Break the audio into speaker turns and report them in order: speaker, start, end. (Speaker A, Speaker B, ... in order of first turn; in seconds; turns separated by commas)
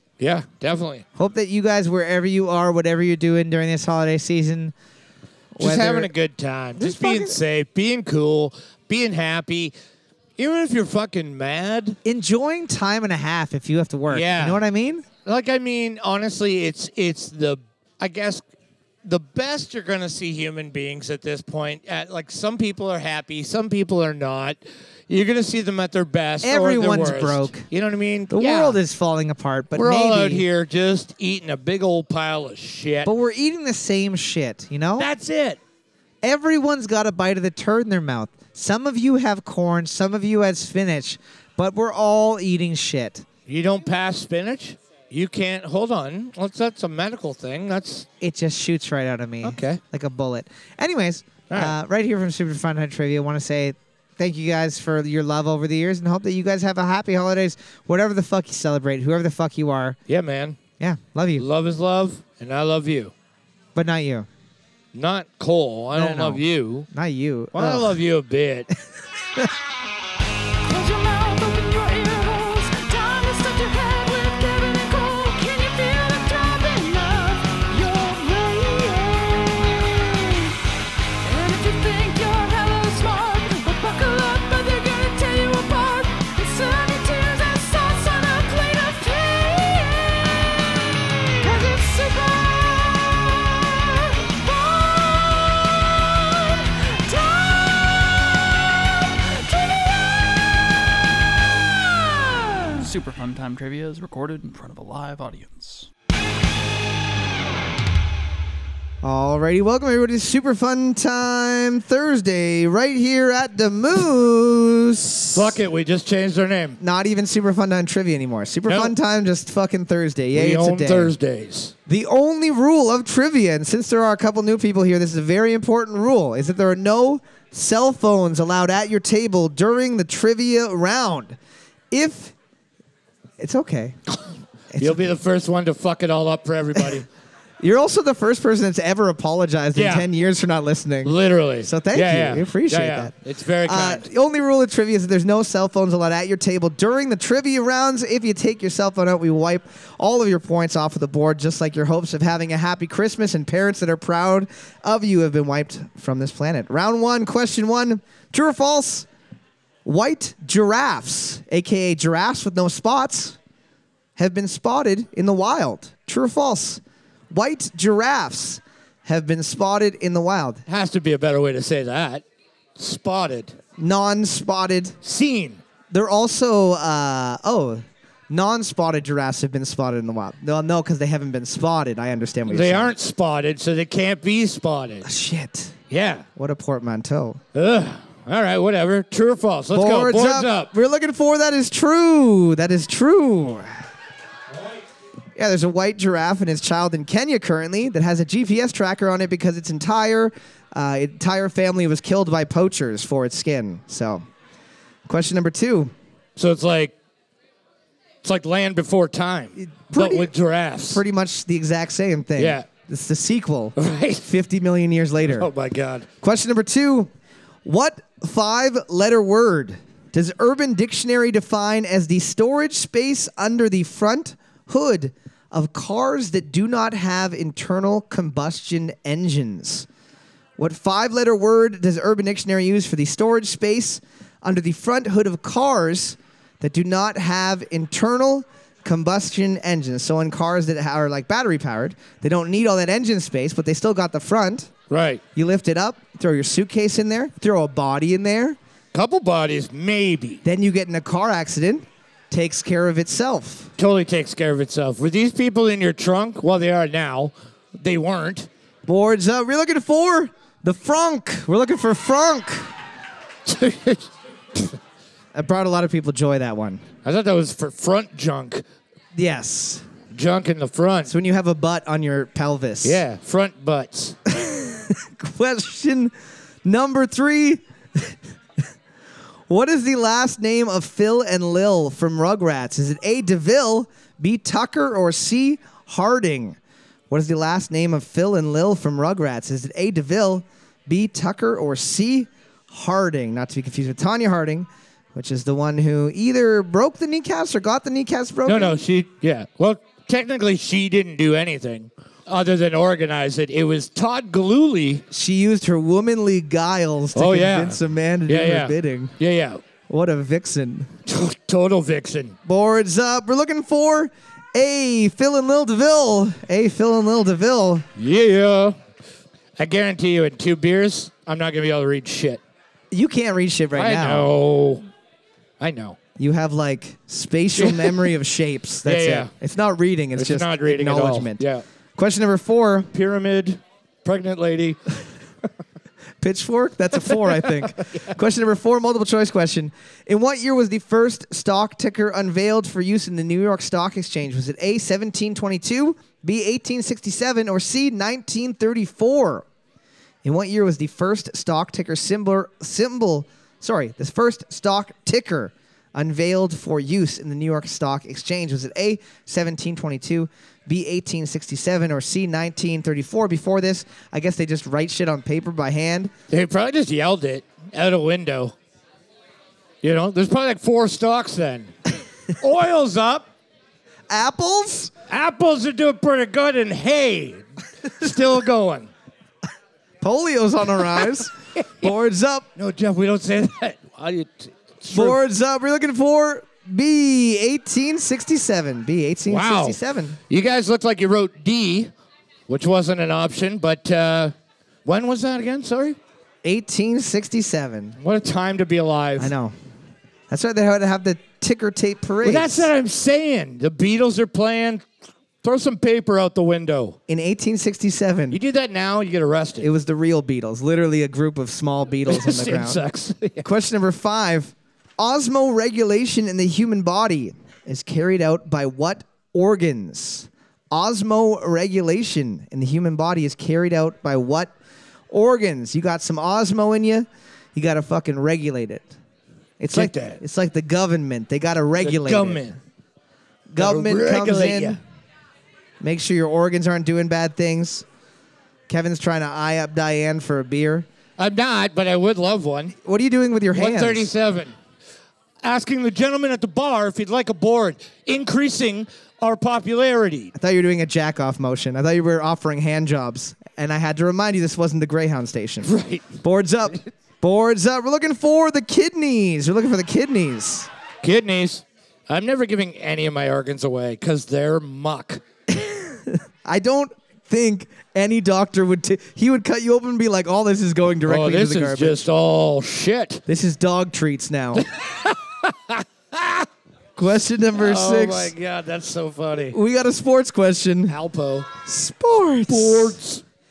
Speaker A: 0.2-1.0, Speaker B: 1.1-4.7, Speaker B: 5.5-6.1, Speaker A: 5.6-9.7, Speaker B: 6.8-7.4, Speaker A: 10.4-12.0, Speaker B: 12.0-15.1, Speaker A: 14.1-14.6, Speaker A: 15.2-18.4, Speaker A: 19.0-28.8, Speaker B: 26.4-27.6, Speaker B: 28.3-30.4, Speaker A: 29.7-33.1, Speaker B: 33.0-35.1, Speaker A: 35.0-35.6, Speaker B: 36.2-43.2, Speaker A: 43.5-48.1, Speaker B: 48.2-60.0, Speaker A: 49.4-49.8, Speaker A: 51.5-51.7, Speaker A: 60.1-60.6, Speaker B: 60.8-61.4, Speaker A: 61.4-63.1, Speaker B: 63.7-64.3, Speaker A: 64.9-66.9, Speaker B: 66.0-68.0, Speaker A: 67.5-68.7, Speaker C: 70.6-80.6, Speaker C: 81.2-90.6, Speaker C: 91.4-100.7, Speaker C: 101.7-102.8, Speaker D: 102.7-105.9, Speaker B: 109.0-115.6, Speaker A: 115.3-116.8, Speaker B: 116.8-121.1, Speaker A: 118.7-118.9, Speaker A: 120.3-121.7, Speaker B: 121.9-131.4, Speaker B: 131.9-132.3, Speaker B: 133.4-134.0, Speaker B: 134.7-135.1, Speaker A: 134.8-137.0, Speaker B: 137.6-141.1, Speaker A: 139.8-140.1, Speaker A: 141.0-144.1, Speaker B: 141.6-143.1, Speaker B: 143.6-159.1, Speaker B: 159.8-163.4, Speaker B: 164.2-170.6, Speaker A: 170.7-172.2, Speaker A: 172.8-173.5, Speaker B: 173.8-174.9, Speaker A: 175.0-175.6, Speaker B: 175.9-182.9, Speaker A: 182.5-185.1, Speaker B: 185.0-185.7, Speaker A: 185.9-186.2, Speaker B: 186.3-187.4, Speaker A: 187.5-190.7, Speaker B: 189.7-193.8, Speaker B: 195.3-204.2, Speaker B: 205.1-205.9, Speaker A: 206.3-206.9, Speaker A: 208.2-211.0, Speaker B: 209.6-210.3, Speaker B: 210.9-215.5, Speaker A: 212.4-212.7, Speaker A: 213.8-214.3, Speaker A: 215.3-216.1, Speaker B: 216.2-217.1, Speaker B: 217.6-229.9, Speaker B: 230.6-244.7, Speaker A: 244.9-245.2, Speaker B: 245.3-248.6, Speaker A: 248.9-250.4, Speaker B: 250.4-253.7, Speaker A: 253.8-258.5, Speaker B: 258.9-262.7, Speaker A: 263.4-264.7, Speaker B: 265.3-266.8, Speaker A: 267.0-268.6, Speaker B: 269.1-269.8, Speaker A: 270.1-271.1, Speaker B: 271.1-273.0, Speaker A: 272.8-274.2, Speaker B: 274.3-276.1, Speaker B: 276.6-278.1, Speaker B: 279.5-286.6, Speaker B: 287.1-298.7, Speaker A: 298.4-305.0, Speaker B: 305.1-309.1, Speaker A: 307.1-309.6, Speaker B: 309.9-310.9, Speaker A: 311.1-312.4, Speaker B: 312.4-317.9, Speaker A: 317.9-318.8, Speaker A: 319.6-322.4, Speaker B: 322.9-324.3, Speaker A: 323.7-324.8, Speaker A: 325.6-326.0, Speaker B: 326.2-331.4, Speaker A: 327.6-328.1, Speaker A: 328.8-329.3, Speaker A: 330.1-331.6, Speaker B: 331.9-332.9, Speaker A: 332.9-334.9, Speaker B: 336.2-349.4, Speaker B: 350.2-366.1, Speaker A: 366.3-368.6, Speaker A: 369.8-371.7, Speaker A: 372.3-373.3, Speaker B: 374.1-374.9, Speaker A: 375.1-378.9, Speaker B: 380.0-382.4, Speaker A: 382.6-385.2, Speaker B: 384.9-390.2, Speaker A: 389.3-391.9, Speaker A: 392.5-394.3, Speaker A: 394.8-396.0, Speaker B: 396.4-397.9, Speaker A: 398.0-399.3, Speaker B: 399.2-399.5, Speaker B: 400.3-402.7, Speaker A: 402.2-404.9, Speaker A: 405.4-407.0, Speaker B: 407.1-408.4, Speaker A: 408.3-409.7, Speaker B: 409.6-412.8, Speaker A: 412.1-413.4, Speaker B: 413.4-424.5, Speaker B: 425.1-428.9, Speaker B: 429.6-432.4, Speaker A: 429.7-430.2, Speaker A: 431.8-432.6, Speaker B: 433.5-434.8, Speaker A: 433.6-434.8, Speaker B: 435.8-437.8, Speaker B: 438.7-440.9, Speaker A: 441.2-442.7, Speaker B: 442.8-444.1, Speaker A: 443.5-444.5, Speaker A: 445.4-450.3, Speaker B: 450.3-455.7, Speaker A: 455.6-456.2, Speaker B: 456.2-460.7, Speaker A: 461.0-465.2, Speaker B: 465.5-472.0, Speaker A: 471.1-473.2, Speaker B: 473.3-474.6, Speaker A: 474.6-476.5, Speaker B: 477.0-478.3, Speaker A: 477.5-479.6, Speaker B: 479.5-480.9, Speaker A: 480.9-481.5, Speaker B: 481.6-482.9, Speaker A: 482.5-483.2